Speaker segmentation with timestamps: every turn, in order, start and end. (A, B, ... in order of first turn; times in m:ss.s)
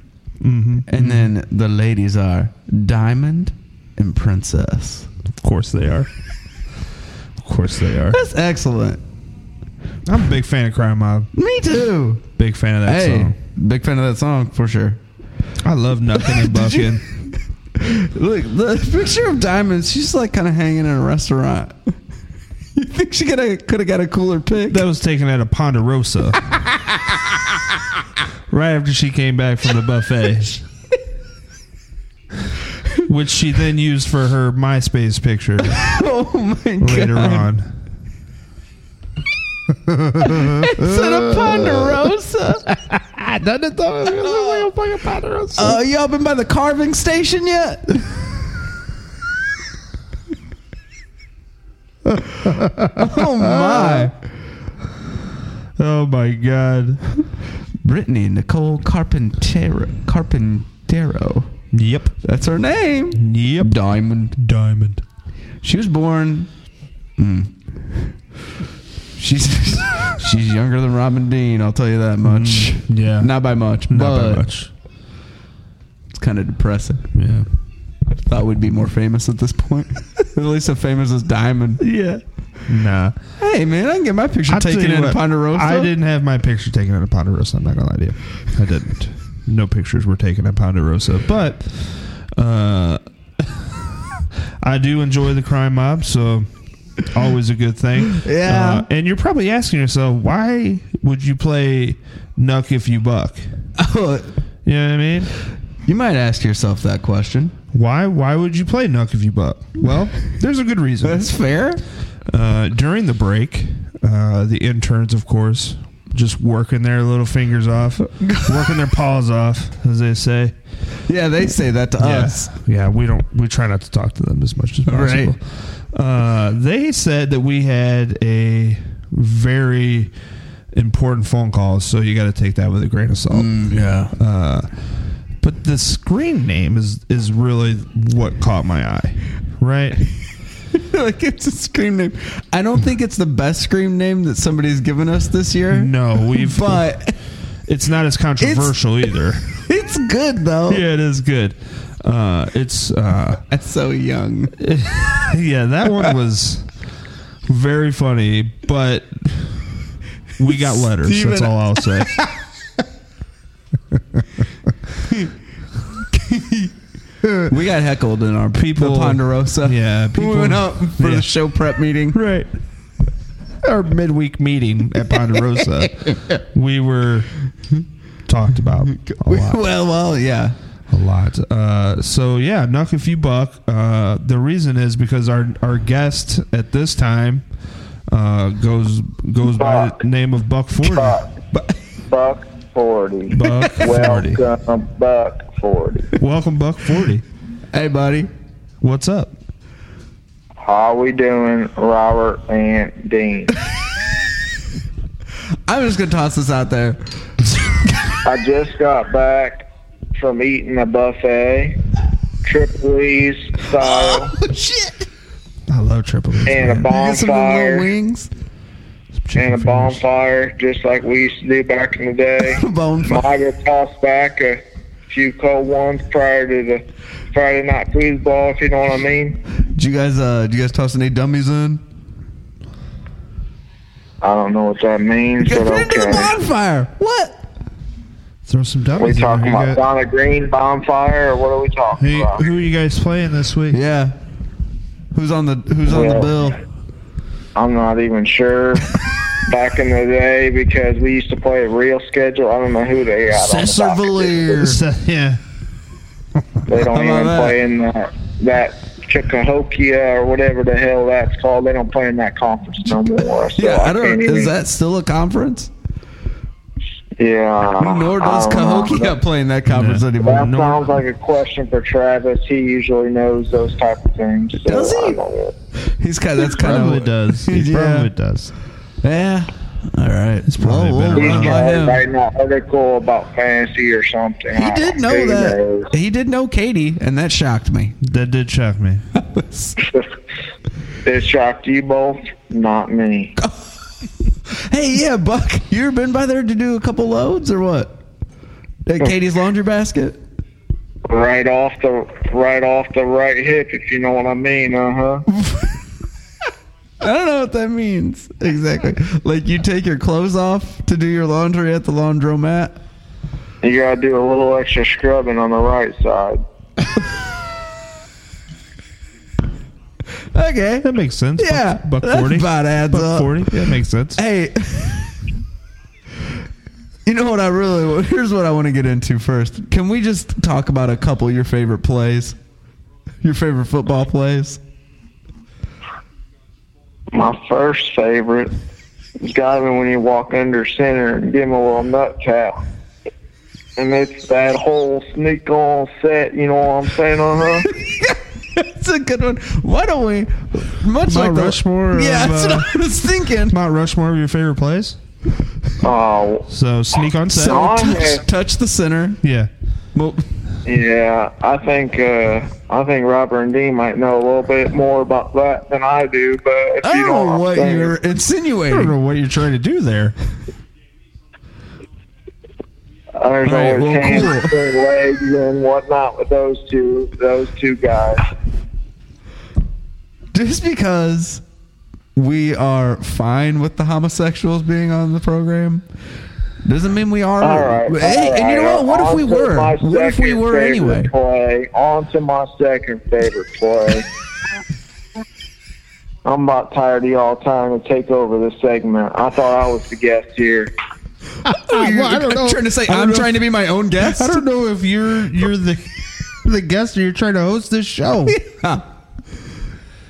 0:00.4-0:01.3 A
0:00.9-0:05.1 B
0:05.4-0:06.1 A
0:07.4-0:08.2 A
0:08.1-0:09.0 B
0:10.1-0:11.3 A
0:11.4-0:12.2 B
0:12.4-0:13.4 A
0:12.8-0:15.0 B
0:15.6-0:17.0 A
0:16.2-0:16.9 B
0:17.8-0:21.8 B
0:22.8-0:24.8 B
0:24.7-0:26.4 A
0:28.5-0:30.6 A
0:33.0-0:36.0 A
0:35.8-0:37.5 B
0:36.8-0:37.7 A
0:39.9-0:42.1 A
0:40.3-0:42.6 B
0:42.7-0:45.8 A
0:44.2-0:44.7 B
0:45.6-0:48.1 B
0:52.0-0:54.1 A
0:53.0-0:54.1 B
0:55.8-0:57.0 A
0:57.8-1:01.5 B
1:01.7-1:02.2 A
1:02.2-1:04.4 B
1:03.1-1:03.8 A
1:04.4-1:05.0 A
1:05.6-1:06.5 B
1:07.2-1:08.1 B
1:09.2-1:14.4 B
1:12.2-1:14.7 A
1:16.1-1:17.1 B
1:17.1-1:17.5 A
1:18.2-1:21.8 B
1:21.8-1:23.2 A
1:23.4-1:25.9 B
1:24.5-1:33.7 A
1:34.6-1:43.5 A
1:38.1-1:38.9 B
1:43.8-1:44.3 B
1:44.6-1:45.3 A
1:45.8-1:47.5 B
1:47.7-1:51.3 A
1:51.0-1:51.8 B
1:52.3-2:00.6 A
1:58.2-1:58.8 B
2:01.1-2:02.5 B
2:02.0-2:10.1 A
2:04.9-2:05.3 B
2:10.7-2:14.7 A
2:13.3-2:14.1 B
2:15.4-2:20.1 A
2:20.7-2:27.2 B
2:25.7-2:27.0 A
2:27.7-2:29.6 A
2:28.4-2:28.8 B
2:29.7-2:30.8 B
2:30.7-2:33.4 A
2:33.5-2:34.5 B
2:34.6-2:36.8 A
2:37.5-2:39.7 A
2:40.4-2:42.2 A
2:40.6-2:42.2 B
2:46.1-2:46.7 B
2:47.5-2:52.2 B
2:48.5-2:51.3 A
2:52.1-2:52.5 A
2:53.6-2:57.3 A
2:58.3-2:59.6 A
2:58.9-3:00.6 B
3:00.9-3:07.4 A
3:08.1-3:11.2 A
3:09.6-3:10.0 C
3:10.8-3:11.3 C
3:12.1-3:16.1 C
3:13.3-3:14.4 A
3:16.2-3:17.2 A
3:17.7-3:18.3 B
3:18.8-3:19.3 A
3:20.6-3:23.6 C
3:25.7-3:27.9 B
3:28.2-3:31.8 C
3:32.4-3:34.3 C
3:33.8-3:35.0 B
3:35.7-3:36.9 A
3:36.5-3:37.9 C
3:36.9-3:38.3 B
3:39.2-3:40.0 A
3:39.4-3:49.4 C
3:42.4-3:43.2 B
3:49.7-3:51.8 B
3:54.2-3:56.3 C
3:55.4-3:57.4 B
3:58.5-3:59.8 A
3:59.0-4:02.4 C
4:02.0-4:03.8 A
4:03.7-4:04.1 B
4:05.1-4:06.6 B
4:05.9-4:06.3 C
4:07.6-4:08.9 C
4:09.4-4:14.7 C
4:13.3-4:14.8 B
4:14.6-4:15.4 A
4:16.7-4:24.5 C
4:16.9-4:17.6 B
4:23.4-4:25.7 B
4:27.2-4:29.2 C
4:27.8-4:30.5 B
4:29.7-4:30.9 A
4:30.2-4:35.6 C
4:34.6-4:35.2 B
4:36.0-4:38.1 B
4:36.5-4:38.5 A
4:39.0-4:42.0 B
4:40.5-4:41.7 A
4:41.1-4:45.9 C
4:44.6-4:48.0 B
4:48.0-4:49.1 A
4:49.1-4:49.8 B
4:51.0-4:53.3 C
4:54.7-4:57.9 B
4:58.9-5:00.2 B
5:01.1-5:05.2 C
5:05.3-5:05.7 B
5:07.0-5:12.8 B
5:13.6-5:16.4 C
5:20.3-5:25.1 B
5:20.8-5:24.2 A
5:27.1-5:32.4 B
5:33.2-5:34.6 B
5:37.1-5:38.5 C
5:39.2-5:42.6 C
5:43.8-5:47.7 C
5:47.7-5:53.6 B
5:51.0-5:52.8 A
5:53.5-5:55.0 A
5:55.8-5:56.5 C
5:56.5-5:57.7 A
5:57.3-5:59.2 B
5:57.4-5:58.2 C
5:59.2-5:59.5 A
6:00.0-6:00.2 B
6:00.6-6:08.0 C
6:06.8-6:09.0 B
6:08.7-6:10.1 A
6:13.2-6:18.2 C
6:13.5-6:14.5 B
6:20.3-6:21.4 B
6:22.2-6:25.8 B
6:26.6-6:31.1 B
6:27.4-6:34.1 C
6:36.2-6:40.7 C
6:41.5-6:43.3 A
6:41.7-6:44.4 B
6:44.0-6:48.4 A
6:48.3-6:48.8 B